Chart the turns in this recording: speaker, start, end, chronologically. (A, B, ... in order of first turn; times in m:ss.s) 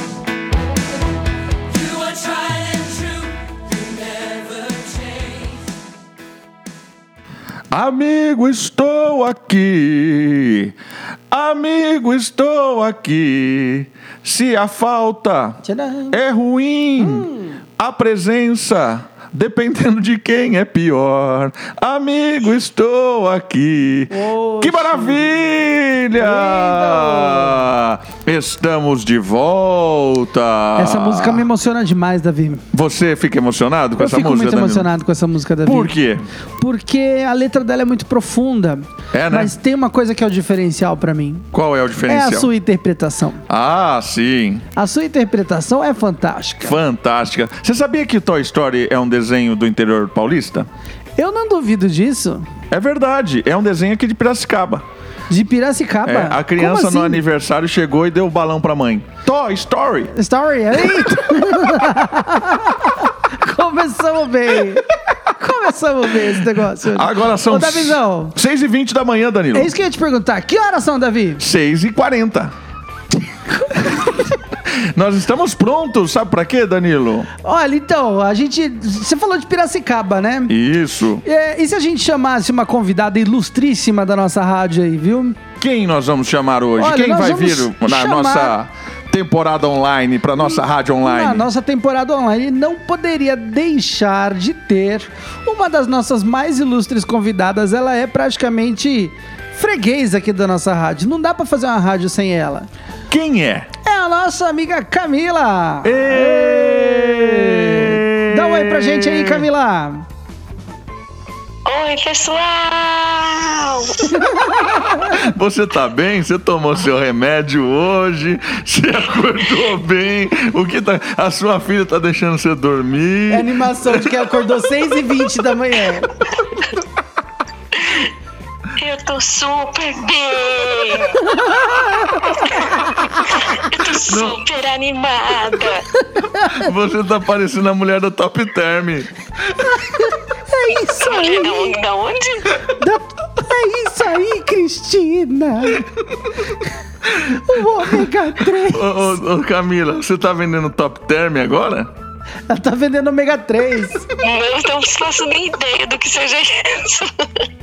0:01.7-0:05.7 A
0:07.7-0:10.7 B
0:11.3-0:31.4 B
0:15.6-0:16.2 C
0:17.0-0:17.6 C
0:24.1-0:25.5 C
0:26.1-0:27.7 C
0:30.8-0:32.6 C
0:32.7-0:34.9 B
0:34.0-0:35.9 C
0:35.6-0:36.2 B
0:36.6-0:41.5 C
0:39.1-0:39.5 B
0:41.5-0:42.5 B
0:42.1-0:43.4 C
0:43.5-0:44.6 B
0:44.8-0:46.8 C
0:46.6-0:50.7 B
0:51.2-0:52.4 C
0:52.7-0:54.8 B
0:55.3-0:57.2 C
0:56.0-1:00.1 B
1:00.1-1:08.3 C
1:00.8-1:01.1 B
1:06.8-1:09.7 B
1:09.5-1:11.4 C
1:11.4-1:12.5 B
1:13.8-1:14.1 B
1:14.6-1:17.3 B
1:17.4-1:20.5 C
1:20.5-1:21.2 B
1:21.2-1:25.4 C
1:25.6-1:31.5 B
1:26.8-1:28.5 C
1:30.5-1:42.7 C
1:43.1-1:43.7 B
1:43.8-1:50.0 C
1:45.8-1:49.4 B
1:51.6-1:54.1 D
1:54.2-1:55.1 C
1:55.0-2:04.2 B
2:03.3-2:06.1 C
2:08.8-2:15.8 D
2:11.3-2:12.1 C
2:14.1-2:14.4 B
2:16.1-2:16.6 C
2:16.4-2:19.6 B
2:19.9-2:21.7 C
2:20.8-2:22.5 D
2:22.8-2:25.8 C
2:27.2-2:29.1 C
2:28.4-2:31.9 B
2:32.5-2:34.1 C
2:34.2-2:37.4 D